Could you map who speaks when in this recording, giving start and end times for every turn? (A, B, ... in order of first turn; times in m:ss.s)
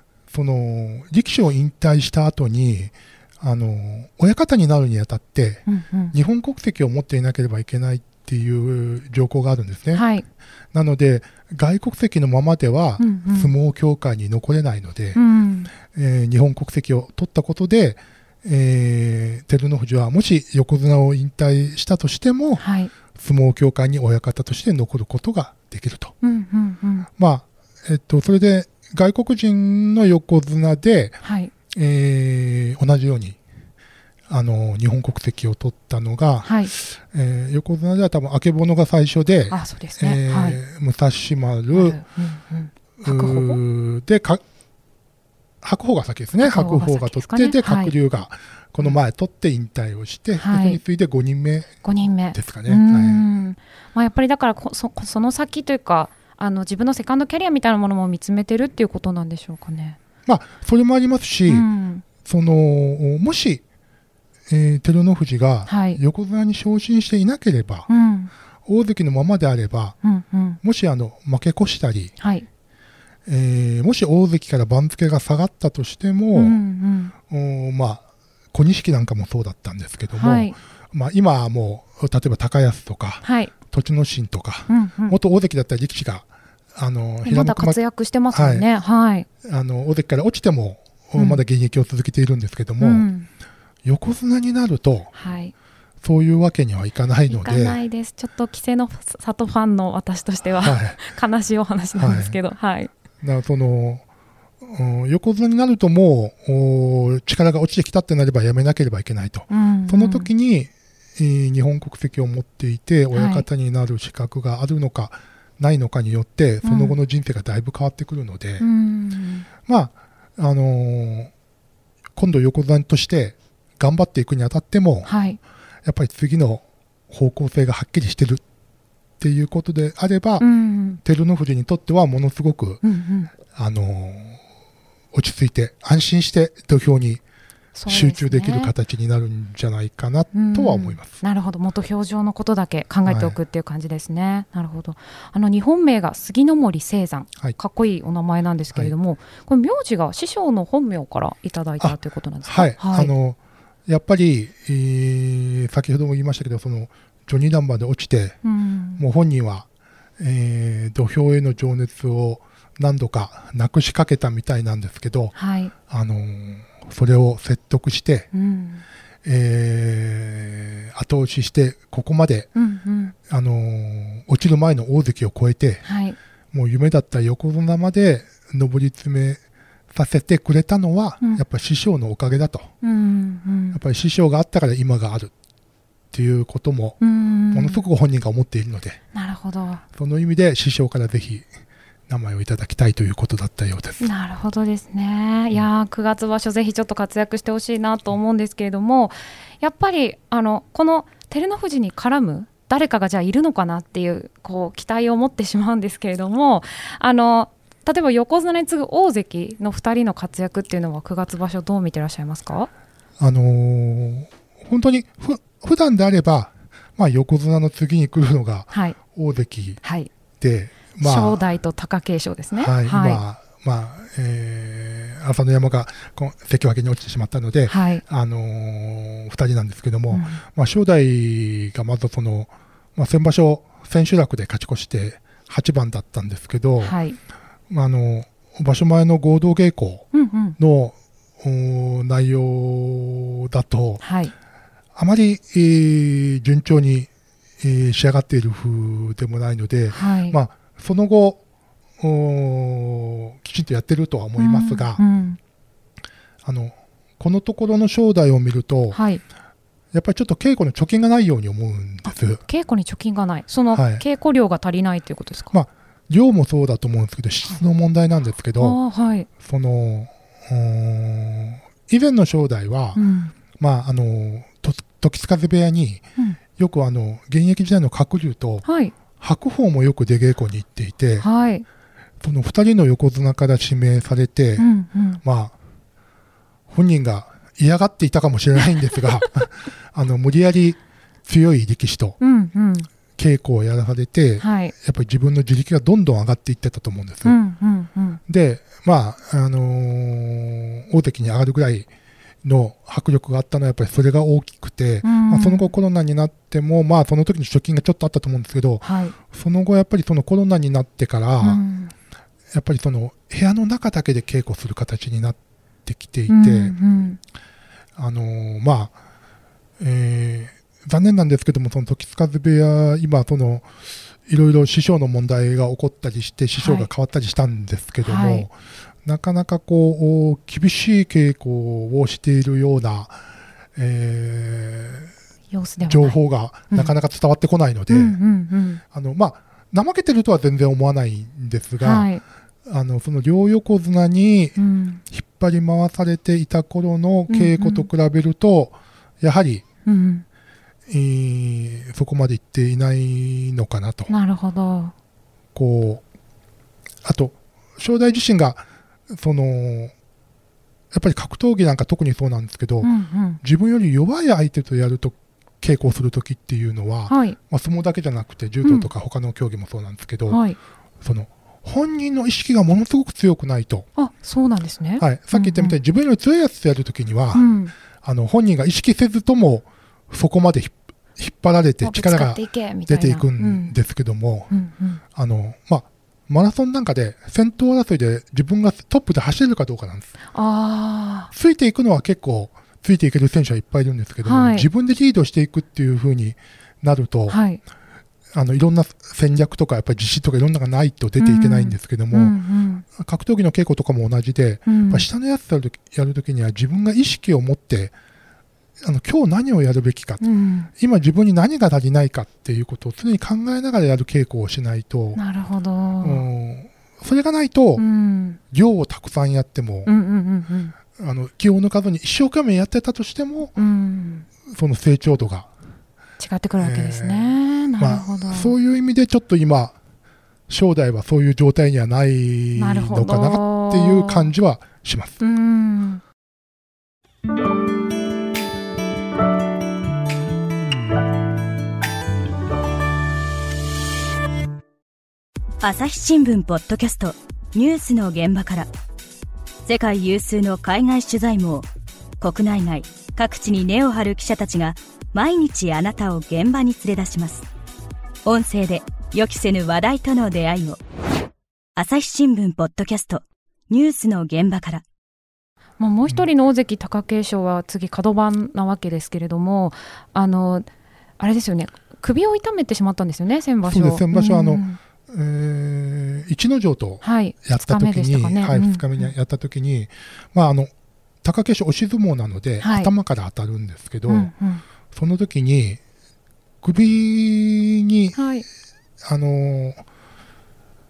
0:00.3-0:10.0 A
0:05.6-0:06.1 B
0:09.9-0:10.2 B
0:10.7-0:15.2 A
0:13.0-0:13.5 B
0:15.2-0:15.7 B
0:15.8-0:22.6 A
0:22.6-0:22.9 B
0:23.1-0:26.1 A
0:26.2-0:27.1 B
0:27.2-0:31.2 A
0:31.2-0:31.5 B
0:31.7-0:33.4 A
0:34.3-0:42.0 A
0:36.4-0:36.7 B
0:39.5-0:40.6 B
0:41.7-0:43.6 B
0:43.0-0:44.4 A
0:45.6-0:51.7 A
0:46.4-0:47.9 B
0:50.4-0:50.8 B
0:51.8-1:00.0 B
0:52.3-0:53.2 A
1:00.2-1:01.7 A
1:01.5-1:02.0 B
1:02.2-1:03.6 A
1:04.5-1:07.9 A
1:05.7-1:06.0 B
1:07.9-1:08.3 B
1:08.6-1:10.0 A
1:10.0-1:10.6 B
1:10.6-1:12.1 A
1:12.2-1:12.5 B
1:13.3-1:16.6 A
1:16.3-1:17.1 B
1:17.3-1:27.8 A
1:20.1-1:20.6 B
1:23.2-1:23.5 B
1:24.7-1:25.2 B
1:27.2-1:29.3 B
1:28.3-1:28.7 A
1:29.4-1:33.1 A
1:32.8-1:33.3 B
1:33.8-1:35.1 A
1:35.1-1:35.5 B
1:36.0-1:37.8 A
1:37.3-1:42.9 B
1:40.6-1:41.0 A
1:42.0-1:42.4 A
1:43.2-1:44.0 A
1:44.6-1:58.6 A
1:49.5-1:50.3 B
1:53.1-1:53.5 B
1:56.6-1:57.0 B
1:58.6-1:59.5 B
1:59.6-2:01.3 A
2:02.2-2:05.1 A
2:05.0-2:05.4 B
2:05.8-2:08.4 A
2:09.2-2:10.4 A
2:10.4-2:11.0 B
2:11.0-2:12.8 A
2:12.8-2:13.3 B
2:13.4-2:14.4 A
2:15.1-2:17.2 A
2:17.7-2:18.7 B
2:17.9-2:21.2 A
2:20.3-2:33.1 B
2:23.0-2:23.4 A
2:31.8-2:38.4 A
2:38.4-2:39.0 B
2:39.0-2:39.6 A
2:40.2-2:45.3 A
2:45.3-2:45.7 B
2:45.9-2:48.3 A
2:48.3-2:48.8 B
2:49.2-2:52.5 A
2:52.5-2:53.1 B
2:53.3-2:55.8 A
2:55.8-2:56.2 B
2:56.5-2:59.4 A
2:59.9-3:02.7 A
3:02.8-3:03.8 B
3:03.7-3:05.3 A
3:06.1-3:07.0 A
3:07.0-3:07.8 B
3:07.5-3:09.0 A
3:09.1-3:09.8 B
3:09.9-3:11.5 A
3:12.1-3:14.0 A
3:14.0-3:32.7 B
3:33.2-3:39.8 A
3:38.7-3:39.0 B
3:39.8-3:40.1 B
3:40.4-3:41.4 A
3:41.0-3:43.2 B
3:42.6-3:57.0 A
3:47.7-3:48.0 B
3:50.1-3:50.4 B
3:56.8-3:57.2 B
3:57.7-4:04.0 A
4:00.1-4:00.6 B
4:04.0-4:04.3 B
4:04.9-4:07.1 A
4:07.6-4:11.4 A
4:09.9-4:10.4 B
4:12.0-4:15.0 A
4:14.4-4:15.4 B
4:16.4-4:19.0 A
4:18.9-4:19.2 B
4:19.9-4:22.4 A
4:22.1-4:25.5 B
4:23.7-4:24.0 A
4:25.5-4:28.8 A
4:28.6-4:29.3 B
4:29.4-4:33.0 A
4:32.9-4:33.3 B
4:33.6-4:36.0 A
4:36.6-4:38.6 A
4:38.6-4:38.9 B
4:39.2-4:41.3 A
4:41.2-4:41.6 B
4:42.2-4:44.7 A
4:44.6-4:45.2 B
4:45.2-4:45.6 A
4:46.7-4:52.2 A
4:52.2-4:52.9 B
4:53.2-4:57.4 A
4:54.4-4:54.7 B
4:57.2-4:58.2 B
4:58.3-5:01.9 A
5:02.4-5:11.6 A
5:05.0-5:05.7 B
5:08.8-5:09.2 B
5:11.4-5:11.9 B
5:12.5-5:16.7 A
5:16.3-5:17.2 B
5:18.0-5:18.9 A
5:19.8-5:23.7 A
5:24.2-5:33.2 A
5:26.6-5:26.9 B
5:28.0-5:28.5 B
5:33.8-5:35.1 A
5:35.5-5:36.2 B
5:35.8-5:38.2 A
5:37.9-5:38.8 B
5:38.9-5:42.1 A
5:41.8-5:42.2 B
5:42.6-5:44.6 A
5:44.6-5:45.0 B
5:45.1-5:49.6 A
5:47.3-5:47.9 B
5:49.8-5:50.2 B
5:50.9-5:54.1 A
5:54.1-5:54.9 B
5:55.5-5:56.0 A
5:57.0-5:59.9 A
6:00.9-6:10.4 A
6:02.8-6:03.4 B
6:07.1-6:07.4 B
6:08.6-6:08.9 B
6:10.3-6:10.6 B
6:11.0-6:13.9 A
6:14.0-6:15.8 B
6:15.0-6:24.5 A
6:17.3-6:17.7 B
6:21.8-6:23.8 B
6:24.5-6:25.0 B
6:25.1-6:30.1 A
6:30.3-6:31.3 B
6:31.3-6:37.4 A
6:34.2-6:34.7 B
6:37.3-6:37.6 B
6:38.3-6:42.4 A
6:41.2-6:42.8 B
6:42.9-6:47.9 A
6:44.7-6:45.1 B
6:48.8-6:50.2 A
6:50.2-6:50.7 B
6:50.8-6:55.2 A
6:55.2-6:56.2 B
6:56.0-6:57.8 A
6:57.8-6:58.4 B
6:58.5-6:59.9 A
6:59.8-7:00.8 B
7:01.0-7:03.6 A
7:03.6-7:04.3 B
7:04.5-7:05.5 A
7:06.2-7:08.5 B
7:06.6-7:09.7 A
7:10.5-7:15.2 A
7:12.5-7:14.3 B
7:15.2-7:16.0 B
7:25.6-7:28.7 C
7:29.6-7:31.7 C
7:32.2-7:37.5 C
7:38.2-7:40.8 C
7:41.8-7:44.8 C
7:45.8-7:50.7 B
7:51.2-7:54.8 B
7:53.6-8:00.7 A
7:57.0-7:59.1 B
8:01.2-8:04.3 A
8:02.6-8:02.9 B
8:04.1-8:04.6 B
8:04.9-8:05.8 A
8:06.6-8:08.2 A
8:08.1-8:08.4 B
8:09.0-8:09.8 A